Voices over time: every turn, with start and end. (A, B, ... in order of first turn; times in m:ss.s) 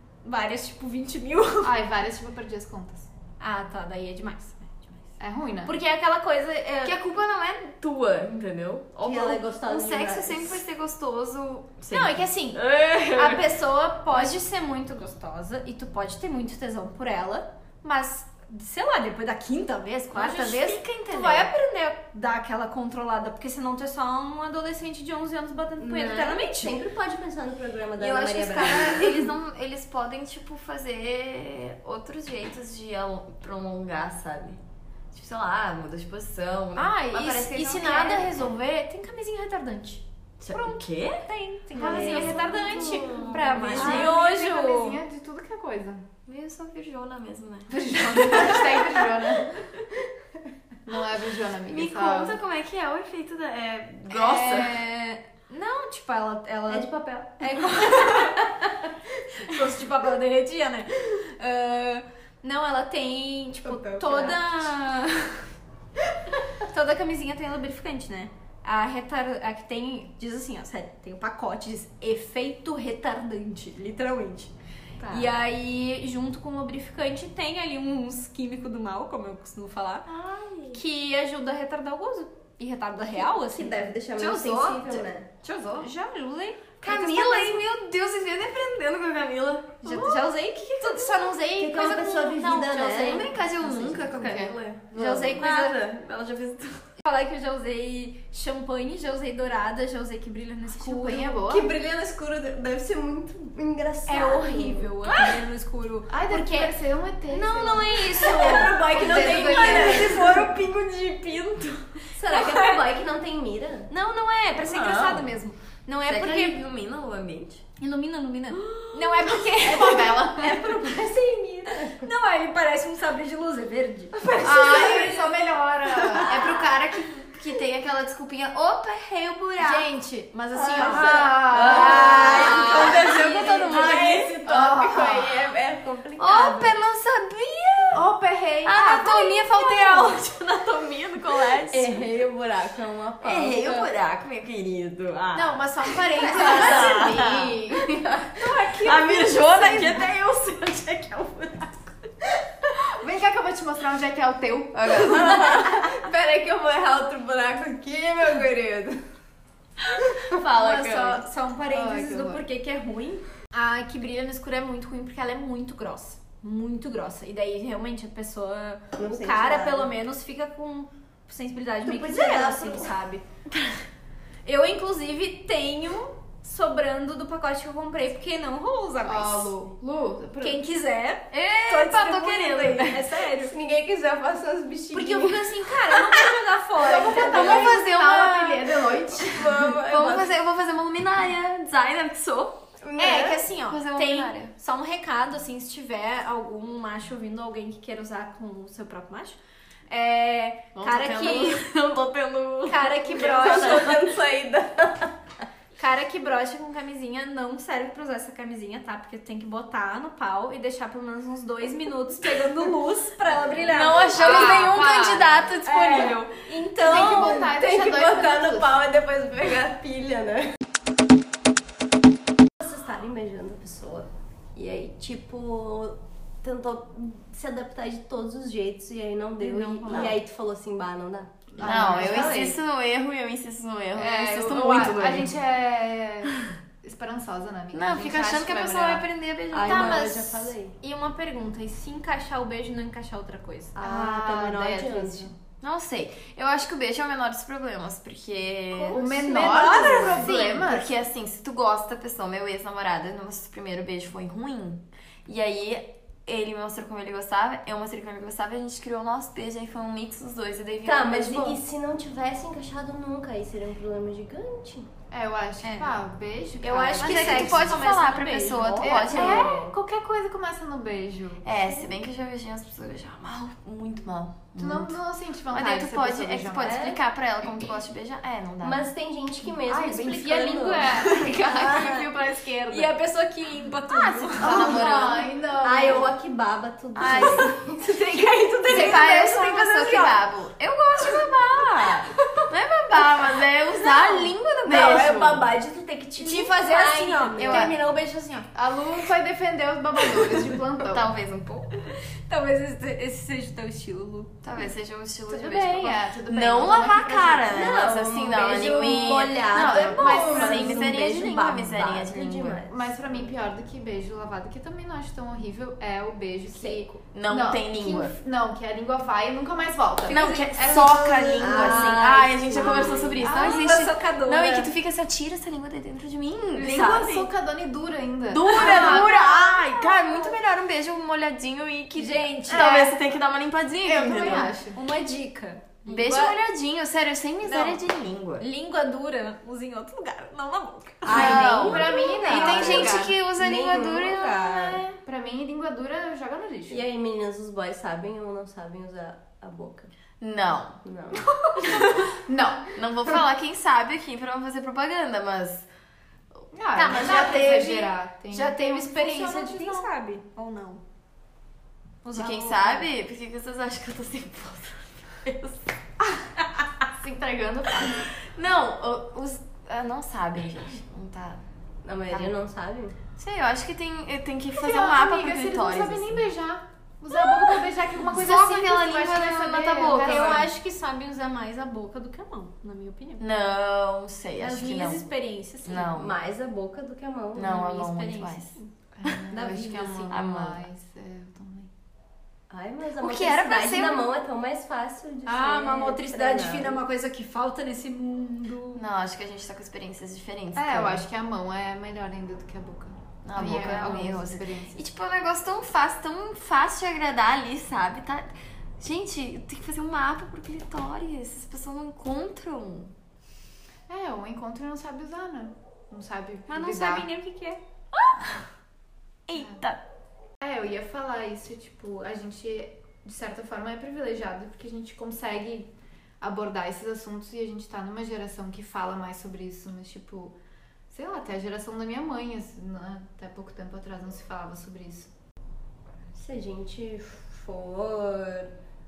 0:00.2-0:01.7 A
0:01.6-0:03.1 B
0:03.4-0:05.0 A
0:05.2-0:05.8 B
0:05.6-0:07.0 A
0:06.8-0:13.5 C
0:09.0-0:10.6 D
0:11.9-0:26.8 A
0:14.1-0:14.4 C
0:20.1-0:21.5 C
0:25.8-0:29.0 D
0:28.0-0:29.3 A
0:28.4-0:34.6 C
0:35.1-0:38.5 C
0:36.8-0:45.0 A
0:40.4-0:41.3 C
0:41.8-0:42.6 B
0:41.8-0:43.0 D
0:41.8-0:44.1 C
0:43.7-0:46.0 B
0:46.3-0:48.7 C
0:47.7-0:49.6 B
0:48.2-0:48.4 A
0:50.9-0:52.4 B
0:51.7-0:54.8 C
0:54.1-0:58.6 A
0:56.7-0:58.7 D
0:59.4-1:05.4 A
1:03.6-1:04.4 D
1:06.6-1:14.5 A
1:15.0-1:15.3 C
1:15.1-1:20.1 A
1:20.1-1:20.8 C
1:20.7-1:24.7 A
1:23.3-1:25.3 D
1:24.2-1:25.9 C
1:25.8-1:27.6 A
1:26.8-1:31.3 C
1:29.8-1:33.3 A
1:31.6-1:34.5 D
1:33.0-1:36.8 C
1:34.1-1:34.5 B
1:34.9-1:35.8 A
1:37.0-1:41.4 A
1:40.7-1:41.7 B
1:41.5-1:45.0 D
1:44.1-1:46.7 A
1:45.1-1:45.4 C
1:46.1-1:50.3 B
1:47.3-1:50.5 A
1:48.2-1:50.3 D
1:48.4-1:52.0 C
1:52.2-1:53.9 D
1:52.3-1:52.8 A
1:53.9-1:56.6 A
1:54.6-1:55.4 C
1:56.1-1:57.6 C
1:57.8-2:04.9 A
1:58.6-1:59.4 C
1:59.6-2:00.8 B
2:01.7-2:02.1 D
2:04.2-2:05.2 D
2:04.4-2:05.4 C
2:04.4-2:06.6 B
2:06.2-2:09.9 C
2:09.6-2:14.1 A
2:10.5-2:15.6 C
2:10.5-2:16.7 D
2:10.7-2:13.8 B
2:14.4-2:15.5 B
2:16.2-2:18.0 C
2:17.9-2:19.2 B
2:18.6-2:22.0 C
2:19.0-2:20.2 A
2:21.7-2:23.9 D
2:23.2-2:32.0 C
2:25.3-2:27.3 A
2:26.3-2:27.8 B
2:26.3-2:27.2 D
2:28.4-2:29.9 B
2:32.9-2:35.6 B
2:34.8-2:36.0 C
2:35.1-2:39.0 D
2:39.8-2:41.3 C
2:40.6-2:53.2 A
2:41.7-2:42.4 B
2:49.0-2:49.9 D
2:51.8-2:53.0 D
2:54.4-2:59.5 A
2:59.0-3:00.6 B
3:00.4-3:03.5 A
3:01.3-3:03.1 C
3:03.4-3:05.6 D
3:04.9-3:07.8 A
3:06.8-3:09.5 B
3:07.0-3:14.5 C
3:09.1-3:10.3 D
3:12.8-3:13.4 D
3:13.0-3:21.6 A
3:20.8-3:24.0 C
3:22.7-3:24.1 A
3:23.1-3:25.2 D
3:25.8-3:34.5 A
3:33.6-3:37.0 C
3:34.0-3:35.4 B
3:35.6-3:37.6 A
3:36.8-3:38.8 B
3:36.9-3:40.6 D
3:42.6-3:52.5 D
3:49.4-3:50.2 A
3:49.8-3:50.2 C
3:51.6-3:52.6 B
3:51.6-3:55.3 C
3:54.0-3:59.1 B
3:57.7-4:00.3 C
3:59.5-4:00.8 D
3:59.6-4:00.2 A
4:00.8-4:03.8 A
4:03.8-4:05.3 D
4:03.8-4:05.4 B
4:05.6-4:21.6 C
4:08.9-4:10.9 B
4:09.3-4:10.2 A
4:09.5-4:10.0 D
4:20.8-4:24.9 D
4:25.1-4:27.8 B
4:25.6-4:26.0 A
4:26.6-4:29.1 A
4:27.0-4:29.5 C
4:28.8-4:31.4 B
4:28.8-4:29.8 D
4:31.4-4:35.0 C
4:31.6-4:31.9 D
4:34.6-4:37.0 B
4:35.5-4:38.8 C
4:36.7-4:37.0 D
4:38.6-4:41.3 D
4:39.6-4:42.9 B
4:40.8-4:42.1 A
4:42.7-4:44.8 A
4:44.0-4:45.3 C
4:44.3-4:46.1 B
4:45.6-4:47.8 D
4:47.0-4:47.5 C
4:47.8-4:50.2 A
4:48.7-4:49.4 B
4:48.7-4:55.5 C
4:52.0-4:52.5 A
4:53.9-4:54.3 A
4:54.6-4:57.8 D
4:56.2-4:58.5 A
4:57.3-4:57.7 C
4:58.6-5:01.1 B
5:00.8-5:01.7 C
5:01.9-5:04.3 A
5:04.4-5:12.6 C
5:05.3-5:07.9 B
5:07.5-5:13.3 D
5:09.6-5:10.7 A
5:10.0-5:10.8 B
5:12.7-5:21.6 B
5:16.5-5:17.0 D
5:17.1-5:18.1 C
5:20.1-5:27.3 C
5:20.1-5:24.7 A
5:21.4-5:23.3 D
5:22.6-5:23.8 B
5:26.6-5:30.4 B
5:28.3-5:34.5 C
5:28.5-5:29.0 A
5:32.0-5:32.8 A
5:32.5-5:33.0 B
5:33.8-5:34.8 B
5:34.7-5:36.4 A
5:35.9-5:38.4 C
5:37.5-5:37.8 A
5:38.4-5:41.5 A
5:41.0-5:44.8 D
5:41.1-5:44.8 C
5:41.2-5:43.2 B
5:45.0-5:46.8 B
5:46.7-5:49.9 D
5:50.2-5:50.8 C
5:50.8-5:51.3 D
5:51.4-5:52.1 A
5:52.3-5:52.7 B
5:52.7-5:55.7 C
5:56.5-5:59.9 B
5:56.8-6:00.8 A
6:02.0-6:02.9 A
6:02.1-6:05.7 C
6:06.9-6:08.1 B
6:07.8-6:11.4 C
6:11.8-6:13.0 D
6:13.2-6:16.2 C
6:14.5-6:20.5 B
6:18.1-6:20.5 C
6:20.0-6:23.2 A
6:23.2-6:25.1 C
6:24.4-6:25.9 A
6:25.6-6:26.1 C
6:26.0-6:27.8 D
6:27.4-6:29.2 C
6:27.5-6:28.7 A
6:29.0-6:31.7 B
6:29.3-6:30.2 A
6:30.1-6:30.6 C
6:32.5-6:36.8 D
6:33.0-6:34.1 C
6:35.3-6:38.8 A
6:38.8-6:41.0 C
6:40.6-6:44.8 B
6:43.2-6:52.9 C
6:53.9-6:57.1 B
6:56.5-6:57.6 A
6:59.3-6:59.8 C
6:59.4-6:59.6 B
7:00.4-7:05.7 B
7:06.2-7:10.4 B
7:10.9-7:15.1 B
7:16.1-7:18.5 D